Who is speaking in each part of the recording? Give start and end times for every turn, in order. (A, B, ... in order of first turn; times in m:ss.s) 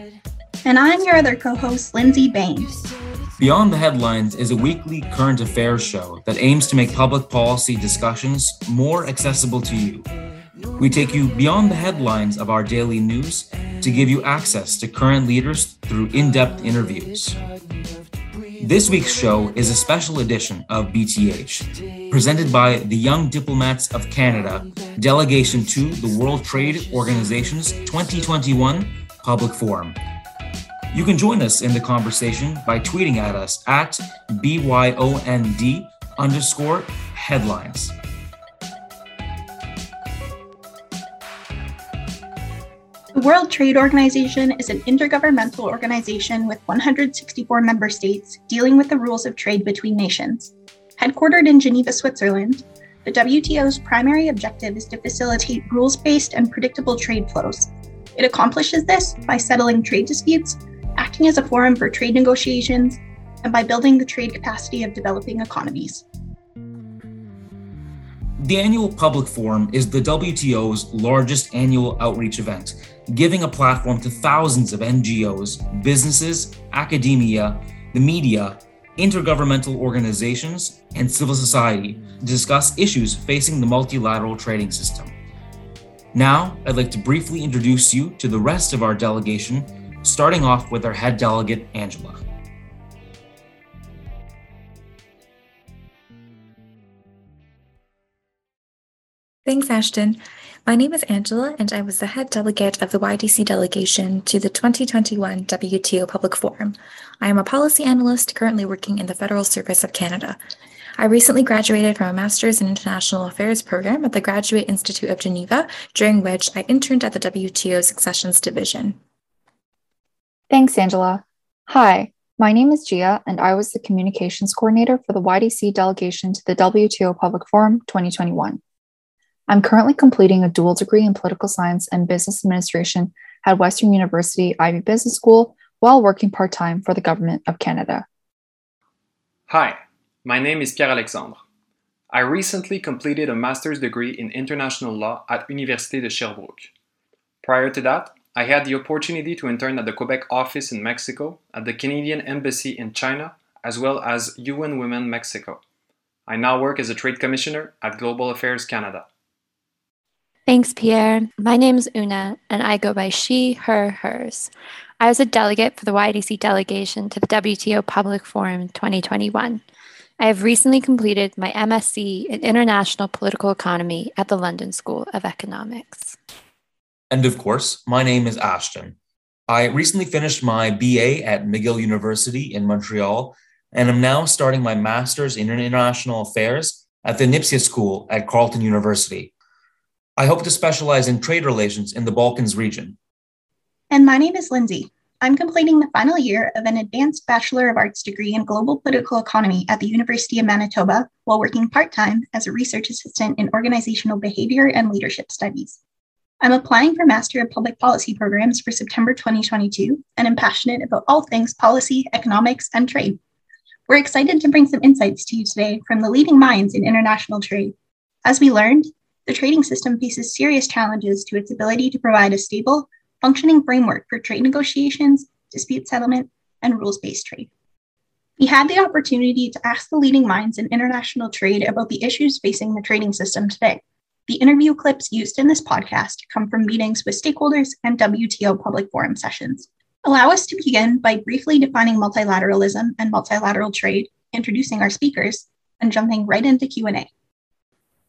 0:00.6-0:02.8 A
0:03.4-0:10.1 B
0:10.8-0:17.4 B
0:18.6-0:30.0 B
0:30.9-0:38.0 B
0:43.1-1:06.0 A
1:08.4-1:25.1 B
1:26.1-1:32.2 B
1:39.5-1:50.4 C
1:51.0-1:59.0 C
2:00.5-2:08.6 D
2:09.5-2:18.1 D
2:19.5-2:21.4 E
2:22.1-2:26.7 E
2:27.4-2:35.6 E
2:36.3-2:39.1 E
2:40.5-2:49.6 F
2:50.2-2:56.2 F
2:57.1-2:59.0 B
2:59.5-3:09.3 B
3:10.2-3:13.0 B
3:13.9-3:25.8 A
3:26.4-3:33.2 A
3:33.9-3:47.5 A
3:48.4-4:07.1 A